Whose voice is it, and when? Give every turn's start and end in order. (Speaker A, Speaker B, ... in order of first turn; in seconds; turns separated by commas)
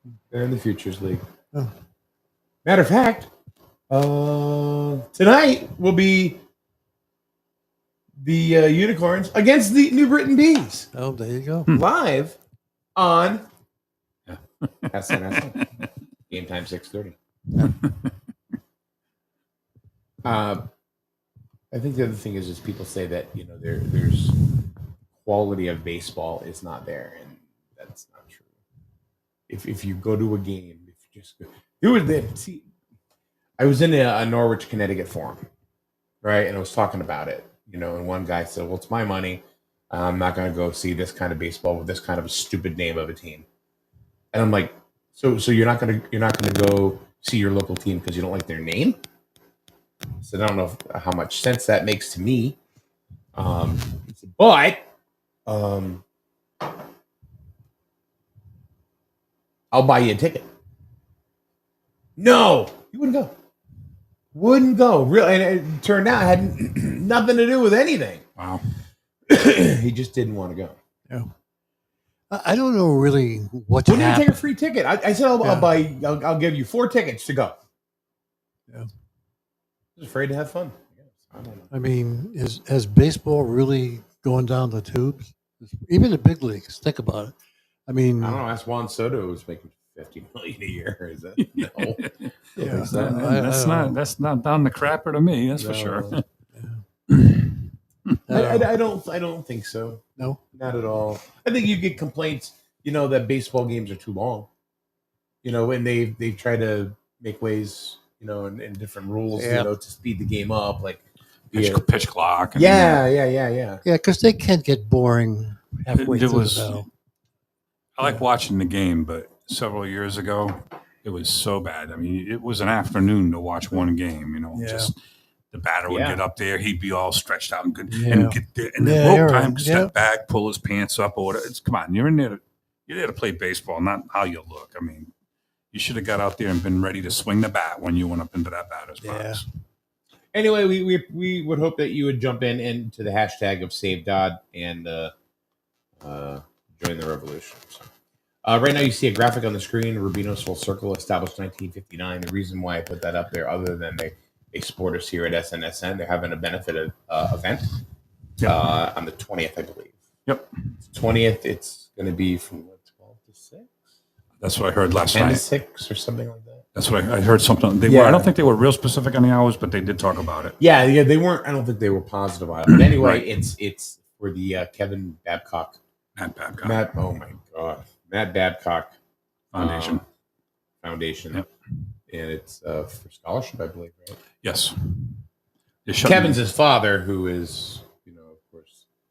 Speaker A: 0.3-1.2, Speaker A: 2.6-3.3, Speaker A: 3.9-6.4, Speaker A: 8.2-10.9, Speaker B: 10.9-11.8, Speaker A: 11.7-12.4, Speaker A: 12.9-13.4, Speaker C: 14.3-14.9, Speaker A: 14.9-15.7, Speaker A: 16.3-17.1, Speaker C: 17.6-18.1, Speaker A: 20.2-20.6, Speaker A: 21.7-24.4, Speaker A: 25.2-28.5, Speaker A: 29.5-32.7, Speaker A: 33.6-35.4, Speaker A: 36.2-43.5, Speaker A: 44.3-49.0, Speaker A: 50.2-52.6, Speaker A: 53.3-54.8, Speaker A: 55.5-56.0, Speaker A: 59.7-60.5, Speaker A: 62.2-63.3, Speaker A: 64.3-68.2, Speaker C: 68.4-68.6, Speaker A: 69.3-70.8, Speaker B: 72.3-74.4, Speaker A: 73.8-77.6, Speaker B: 75.4-75.7, Speaker A: 80.0-81.7, Speaker B: 81.7-87.3, Speaker B: 87.9-88.4, Speaker A: 88.2-93.2, Speaker C: 91.4-96.2, Speaker B: 92.6-94.0, Speaker A: 95.5-96.2, Speaker B: 96.5-96.8, Speaker C: 97.1-98.2, Speaker B: 98.3-98.7, Speaker A: 98.3-104.5, Speaker A: 105.4-111.8, Speaker B: 109.3-109.7, Speaker C: 111.5-113.0, Speaker A: 112.5-113.8, Speaker B: 113.8-116.8, Speaker C: 115.9-116.9, Speaker C: 118.0-124.9, Speaker B: 124.5-124.9, Speaker C: 125.5-135.1, Speaker A: 125.9-126.2, Speaker B: 127.9-129.9, Speaker C: 135.7-139.4, Speaker B: 139.0-139.4, Speaker A: 140.3-145.1, Speaker A: 146.0-147.9, Speaker A: 148.4-157.7, Speaker A: 158.4-159.9, Speaker A: 160.8-163.7, Speaker C: 164.4-165.4, Speaker A: 165.1-166.6, Speaker C: 166.7-170.6, Speaker A: 167.8-168.3, Speaker A: 170.6-175.8, Speaker C: 172.7-173.3, Speaker C: 176.2-176.9, Speaker A: 176.6-178.9, Speaker C: 179.5-180.0, Speaker A: 179.5-180.0, Speaker A: 180.8-181.4, Speaker A: 182.1-184.2, Speaker C: 184.4-185.2, Speaker C: 185.9-186.4, Speaker A: 186.0-188.8